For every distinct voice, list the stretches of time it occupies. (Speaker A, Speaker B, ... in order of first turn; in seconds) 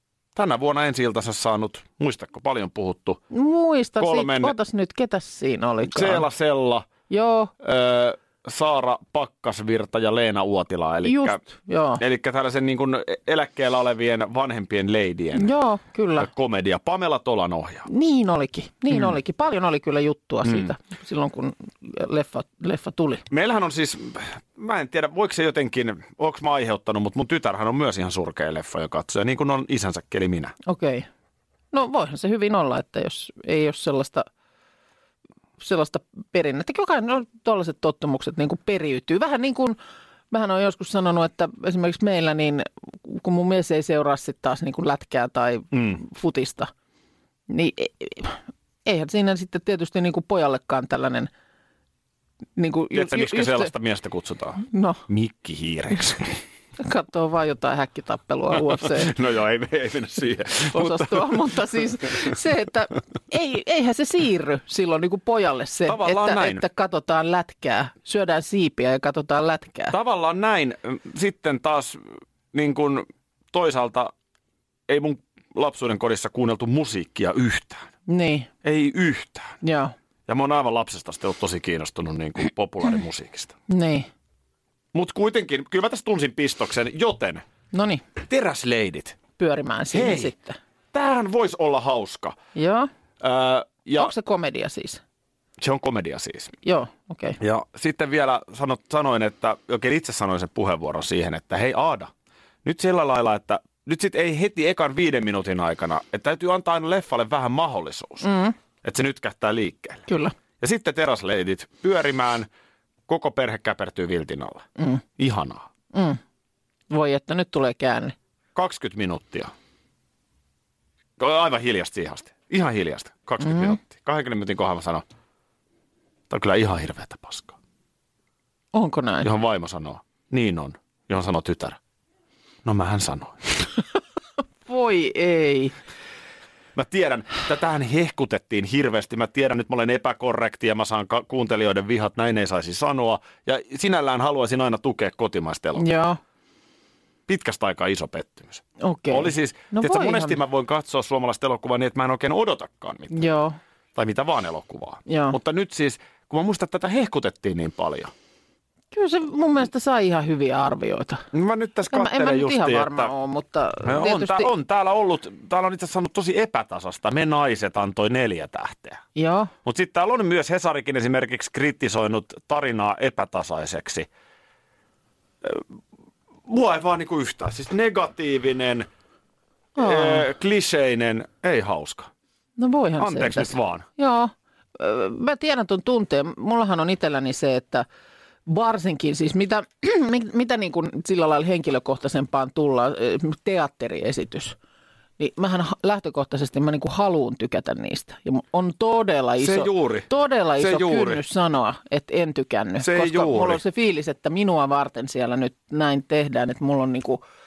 Speaker A: 0.3-3.2, 4.0-4.5, 5.9-6.9, 7.6-11.4, 12.0-15.5, 16.2-17.9, 20.4-20.7, 23.3-30.5, 45.7-46.0, 52.9-56.4, 58.8-61.5, 65.9-66.6, 69.9-72.0, 72.5-74.1, 74.9-77.9, 78.6-79.6, 80.3-83.5, 84.9-87.4, 88.2-89.2, 89.9-90.3, 90.9-92.3, 93.2-94.1, 95.6-96.5, 97.4-102.1, 102.6-108.3, 108.8-110.1, 110.6-112.5, 113.1-114.7, 115.2-115.7, 118.5-119.5, 121.2-125.0, 126.3-127.6, 129.2-131.8, 132.7-133.5, 136.8-145.8, 147.3-153.3, 153.9-158.1, 161.3-163.1, 163.8-169.0, 169.7-174.1, 176.5-178.9, 179.8-182.1, 183.0-183.9, 199.4-201.2, 202.8-203.6
Speaker B: 3.3-6.3, 7.1-7.5, 11.0-12.0, 15.4-16.3, 17.9-23.2, 30.7-31.1, 31.7-34.3, 35.6-39.8, 40.3-46.7, 47.5-51.3, 52.6-53.7, 54.6-55.0, 56.8-59.1, 60.7-70.0, 78.1-78.5, 79.6-79.9, 83.7-84.1, 87.7-88.0, 89.4-90.6, 92.5-92.9, 94.0-95.0, 96.7-97.4, 108.2-108.5, 110.1-110.3, 115.9-116.2, 116.9-118.2, 123.4-123.7, 128.7-129.3, 134.7-135.8, 145.8-146.2, 148.8-150.4, 153.1-153.6, 155.1-155.4, 158.9-161.2, 161.9-164.5, 169.2-169.5, 179.8-180.3, 182.6-187.9, 188.5-194.6, 195.2-207.2